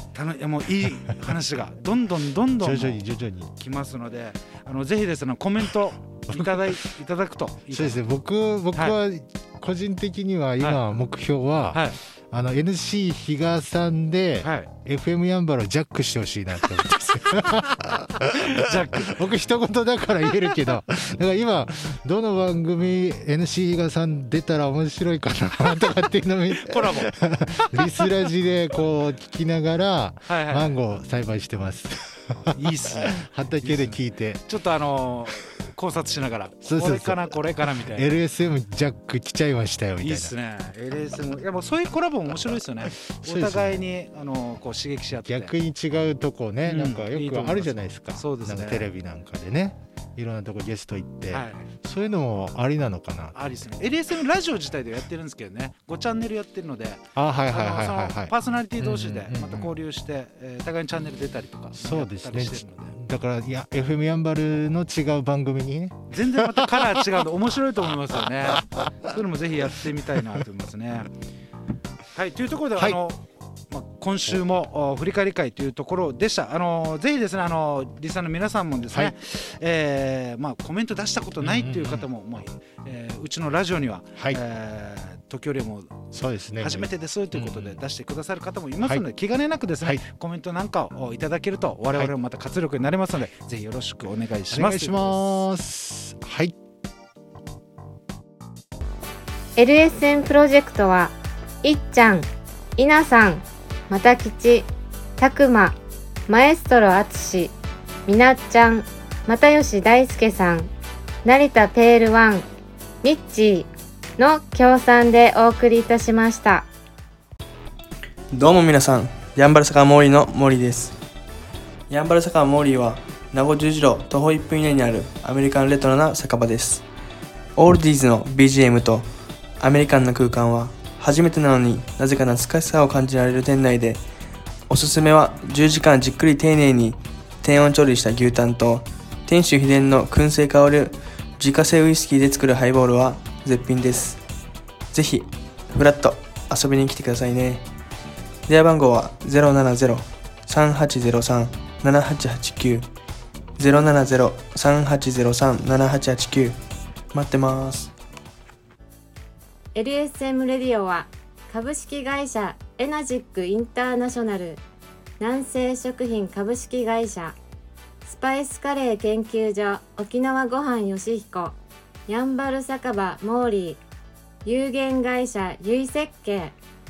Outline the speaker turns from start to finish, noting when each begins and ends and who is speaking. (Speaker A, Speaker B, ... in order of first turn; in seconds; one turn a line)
Speaker A: 0.1-3.0
Speaker B: 2.6-3.5
Speaker A: 3.6-8.0
Speaker B: 6.3-6.8
Speaker B: 7.7-34.4
Speaker A: 14.4-14.7
Speaker A: 18.4-19.2
Speaker A: 26.6-27.1
Speaker A: 30.3-30.8
Speaker A: 32.5-38.1
Speaker B: 36.6-37.2
Speaker B: 37.9-40.3
Speaker A: 40.0-45.5
Speaker B: 43.1-43.8
Speaker B: 45.2-53.4
Speaker A: 46.6-48.9
Speaker A: 51.3-51.6
Speaker A: 53.3-62.9
Speaker B: 57.1-59.7
Speaker B: 61.7-67.0
Speaker A: 66.1-71.1
Speaker A: 72.1-85.9
Speaker B: 81.4-82.1
Speaker B: 86.1-87.8
Speaker A: 86.6-95.4
Speaker B: 94.5-96.5
Speaker C: 99.5-107.5
Speaker C: 108.0-110.7
Speaker C: 111.2-112.5
Speaker C: 113.0-116.7
Speaker D: 118.3-121.0
Speaker D: 121.9-126.8
Speaker D: 127.5-134.0
Speaker D: 134.7-144.2
Speaker D: 144.9-147.7
Speaker D: 148.5-152.9
Speaker D: 153.6-156.6
Speaker D: 157.1-157.9
Speaker C: 159.7-164.6
Speaker C: 165.2-167.3
Speaker C: 168.0-173.8
Speaker C: 174.4-176.5